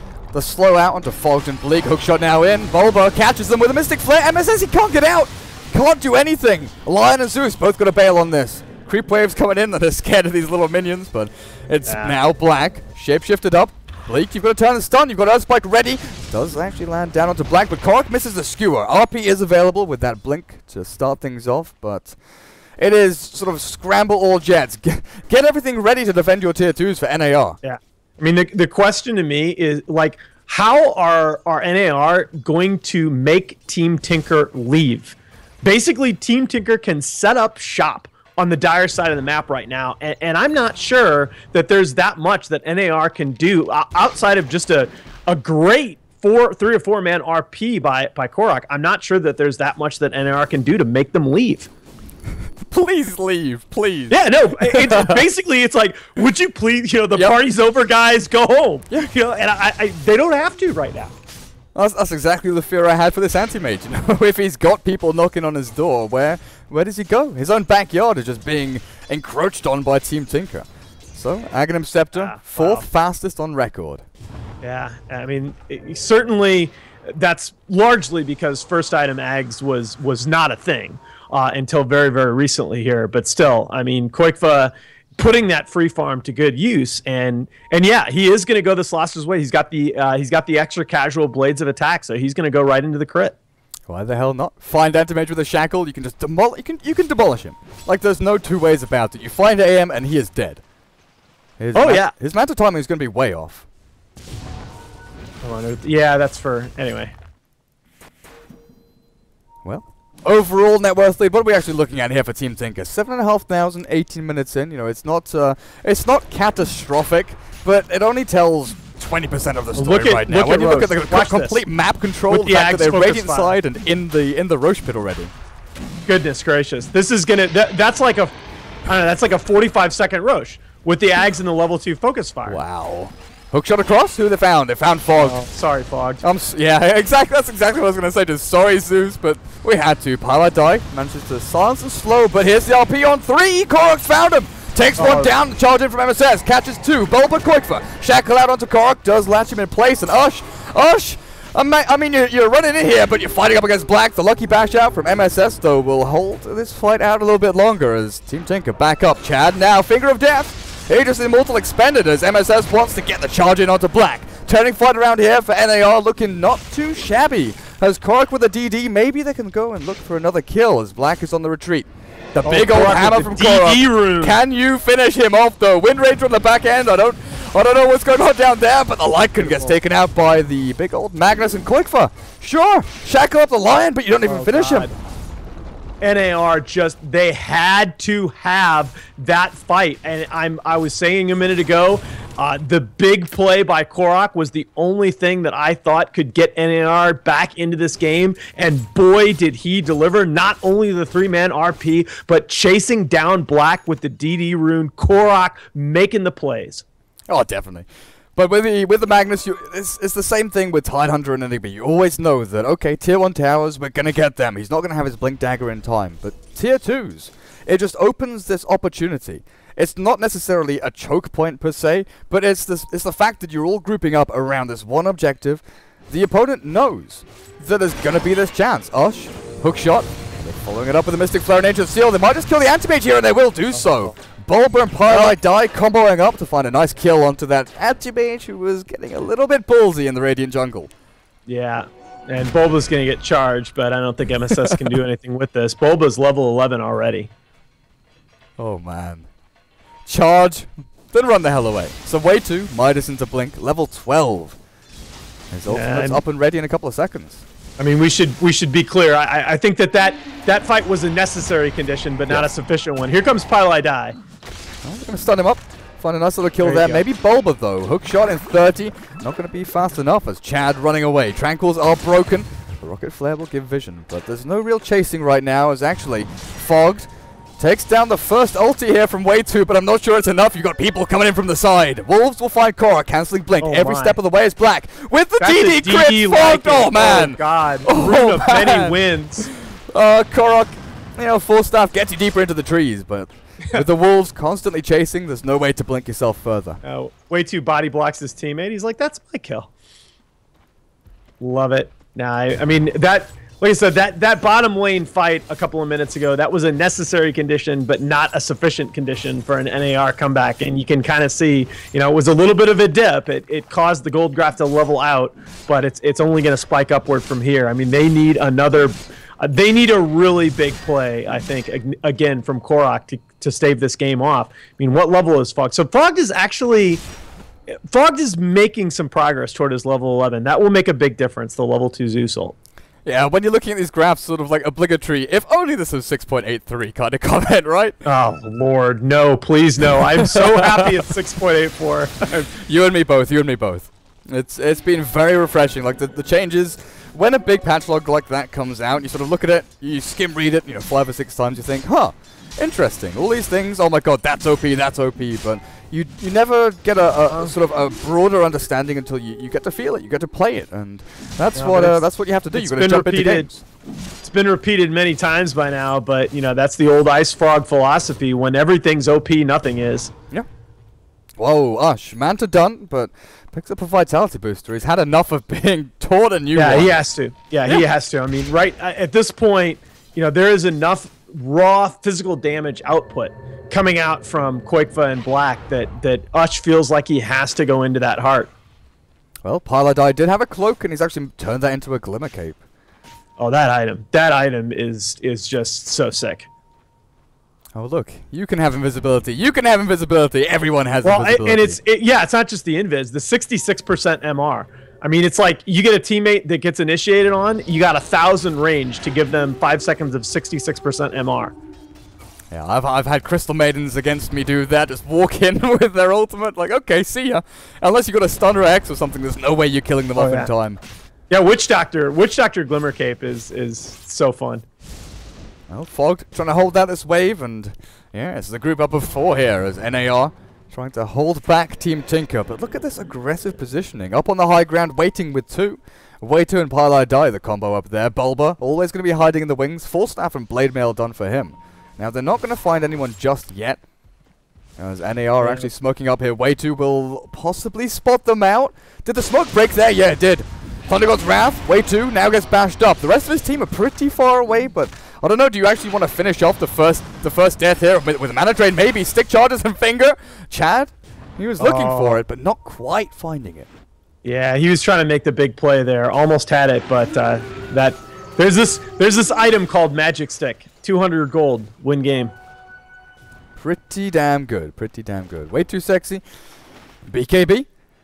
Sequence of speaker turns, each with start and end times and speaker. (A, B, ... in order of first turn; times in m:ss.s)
0:00.3-0:22.2 A
0:11.9-0:12.1 B
0:22.8-0:27.6 A
0:27.6-0:51.7 B
0:52.6-0:55.2 A
0:54.1-1:01.1 B
1:01.8-1:14.0 A
1:12.1-1:12.9 B
1:14.6-1:33.4 B
1:33.9-1:40.6 A
1:41.6-1:43.7 A
1:41.8-1:42.1 B
1:45.4-1:47.1 B
1:49.6-2:05.3 A
1:59.8-2:01.6 B
2:02.3-2:03.6 B
2:06.1-2:08.4 B
2:08.9-2:12.6 B
2:12.5-2:15.4 A
2:15.2-2:16.2 B
2:16.2-3:04.9 A
2:25.0-2:25.3 B
2:52.4-2:54.4 B
2:59.4-2:59.7 B
3:04.2-3:04.9 B
3:06.0-3:26.8 B
3:27.3-4:00.9 A
3:55.1-3:55.4 B
4:01.5-4:07.3 B
4:08.6-4:09.3 A
4:10.1-4:14.6 A
4:15.5-4:17.4 A
4:15.7-4:16.2 B
4:17.8-4:24.2 B
4:24.8-4:49.0 A
4:26.6-4:27.0 B
4:43.6-4:44.2 B
4:45.4-4:49.5 B
4:49.6-4:56.8 A
4:56.8-4:59.7 B
5:01.4-5:27.0 B
5:27.7-5:32.6 B
5:33.0-5:38.0 A
5:38.0-5:42.5 B
5:39.9-5:41.0 A
5:42.5-6:03.6 A
6:01.6-6:03.5 B
6:04.2-6:10.1 B
6:11.4-6:17.0 A
6:16.5-6:28.5 B
6:29.4-6:32.6 A
6:33.4-6:36.5 B
6:37.7-6:41.8 A
6:41.0-6:51.6 B
6:52.5-7:00.8 A
7:00.2-7:00.5 B
7:01.3-7:04.6 B
7:05.7-7:23.8 A
7:24.8-7:43.7 A
7:25.4-7:25.7 B
7:41.6-7:42.2 B
7:44.2-7:52.3 B
7:53.6-7:56.2 A
7:57.1-7:57.7 A